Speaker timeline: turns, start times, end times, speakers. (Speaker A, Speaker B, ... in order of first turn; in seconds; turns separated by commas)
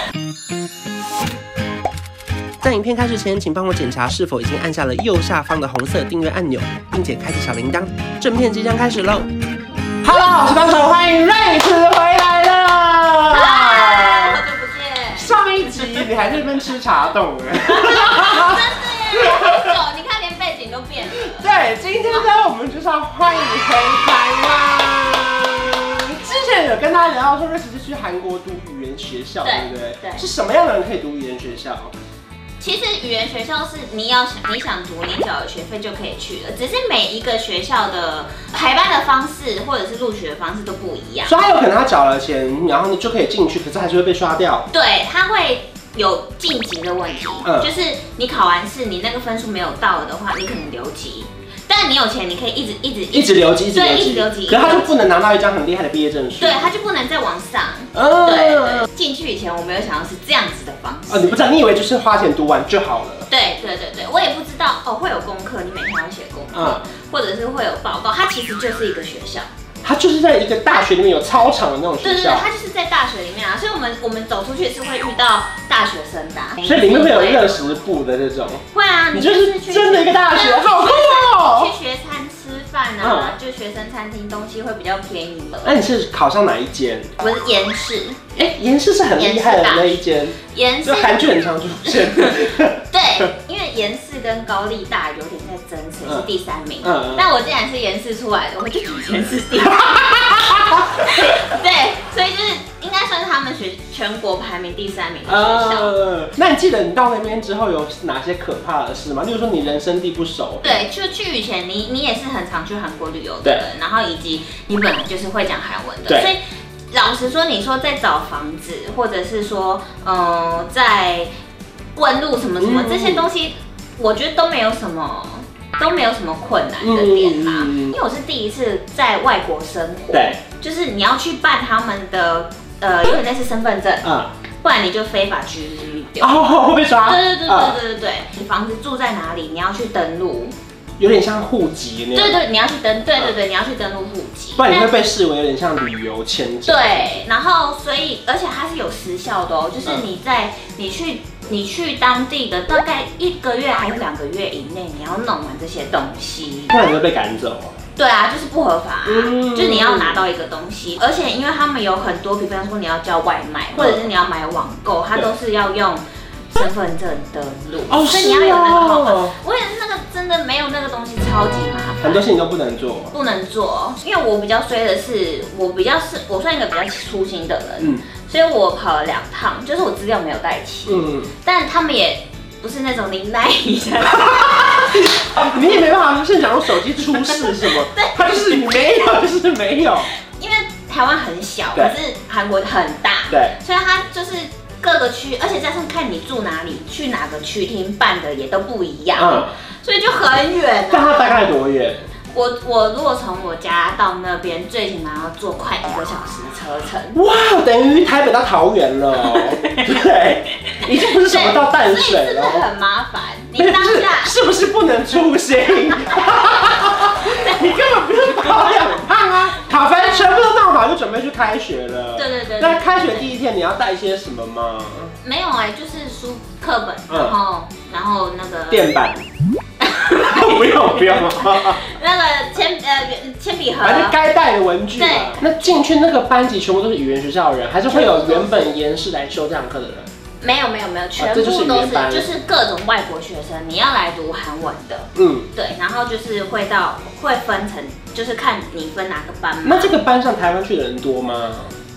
Speaker A: 2.6-9.3, Speaker A: 10.0-14.4, Speaker B: 13.3-16.1, Speaker A: 15.1-19.8, Speaker B: 17.6-21.4, Speaker A: 21.1-31.9, Speaker B: 29.4-30.2, Speaker B: 32.6-41.4, Speaker A: 41.2-44.7, Speaker B: 44.7-54.9, Speaker A: 47.4-47.7, Speaker A: 53.1-56.7, Speaker B: 56.4-61.4, Speaker A: 57.9-58.9, Speaker A: 61.1-63.3, Speaker B: 63.3-69.5, Speaker A: 66.5-66.8, Speaker A: 69.8-72.5, Speaker B: 72.0-77.8, Speaker A: 76.6-81.7, Speaker B: 78.7-85.8, Speaker A: 83.0-83.4, Speaker A: 85.6-87.1, Speaker B: 87.2-88.2, Speaker A: 88.3-92.9, Speaker B: 89.1-91.3, Speaker B: 91.9-105.9, Speaker A: 96.8-97.3, Speaker A: 99.7-101.1, Speaker A: 105.3-110.8, Speaker B: 110.6-116.4, Speaker B: 116.9-121.3, Speaker B: 121.9-134.1, Speaker A: 122.6-123.3, Speaker A: 126.8-128.0, Speaker A: 130.1-130.4, Speaker A: 134.0-134.3, Speaker B: 134.6-136.5, Speaker A: 136.2-137.8, Speaker B: 137.0-140.5, Speaker A: 141.0-142.4, Speaker B: 142.1-144.9, Speaker A: 144.6-147.2, Speaker B: 146.7-156.7, Speaker A: 156.7-157.7, Speaker B: 158.0-172.2, Speaker A: 159.1-160.2, Speaker A: 163.7-164.1, Speaker A: 167.9-169.3, Speaker A: 172.0-173.1, Speaker B: 173.1-185.5, Speaker A: 177.8-178.0, Speaker A: 180.8-181.3, Speaker A: 184.2-190.1, Speaker B: 187.2-189.1, Speaker B: 190.2-201.2, Speaker A: 193.3-193.6, Speaker A: 199.1-199.5, Speaker A: 200.9-202.1, Speaker B: 202.3-207.2, Speaker A: 207.1-212.7, Speaker B: 209.2-209.9, Speaker B: 210.8-214.3, Speaker A: 213.6-225.1, Speaker B: 217.3-217.7, Speaker B: 219.8-220.4, Speaker B: 222.2-223.3, Speaker B: 225.2-228.9, Speaker A: 227.1-227.3, Speaker A: 228.7-229.2, Speaker B: 229.8-234.2, Speaker A: 230.2-231.9, Speaker A: 233.8-240.1, Speaker B: 234.9-235.7, Speaker B: 237.9-238.7, Speaker B: 240.4-250.0, Speaker A: 241.2-242.3, Speaker A: 245.2-245.5, Speaker A: 249.6-251.7